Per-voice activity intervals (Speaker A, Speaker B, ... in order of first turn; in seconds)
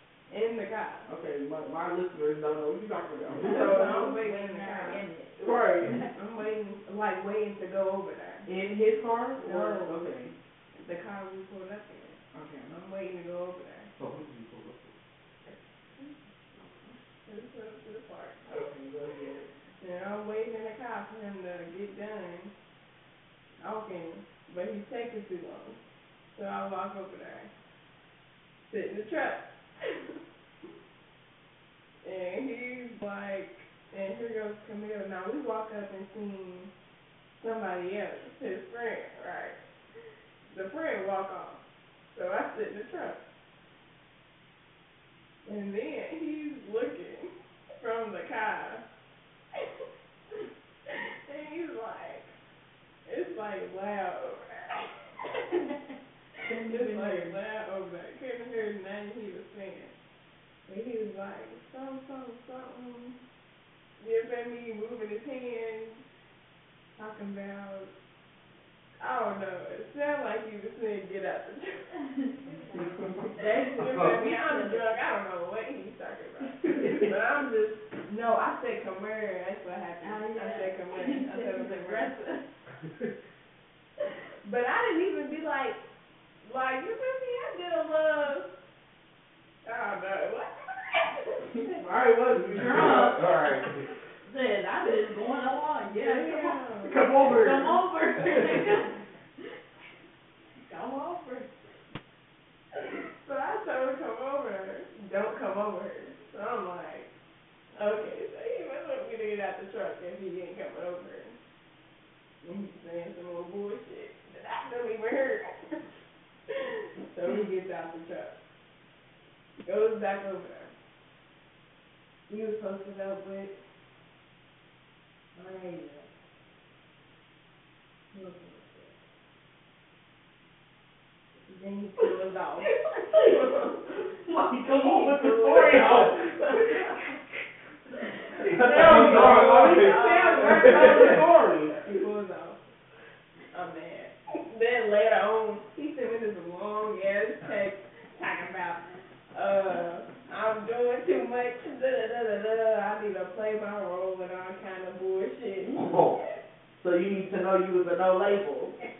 Speaker A: 0.3-1.1, 3.4-8.5, 9.4-10.1, 10.7-13.9, 17.2-18.4, 19.8-22.5, 23.6-25.8, 26.3-27.5, 28.7-30.0, 32.0-36.7, 37.4-39.6, 40.5-41.6, 42.1-43.2, 45.4-48.8, 50.9-52.3, 53.0-54.9, 56.6-59.9, 60.7-63.2, 64.0-66.0, 67.0-67.9, 69.0-71.9, 72.7-82.1, 84.4-85.8, 86.4-88.5, 89.6-91.8, 95.9-97.0, 102.7-107.1, 107.7-111.3, 112.4-115.8, 116.5-118.3, 119.6-120.7, 122.3-123.5, 125.3-126.1, 128.1-128.9, 131.5-132.7, 134.6-136.9, 138.4-142.6, 143.5-156.3
Speaker B: 1.1-4.2, 8.4-10.3, 12.3-12.7, 18.5-19.5, 91.8-93.2, 96.8-97.8, 132.6-137.1, 138.3-141.8, 155.7-156.0, 156.8-158.9
Speaker C: 3.4-6.1, 56.4-57.4, 72.1-74.9, 80.0-82.4, 92.5-93.7, 94.2-99.0, 100.6-101.5
Speaker D: 13.9-15.6, 16.5-16.9, 73.8-74.2, 82.8-83.1, 92.6-93.9, 138.5-141.2, 155.7-156.2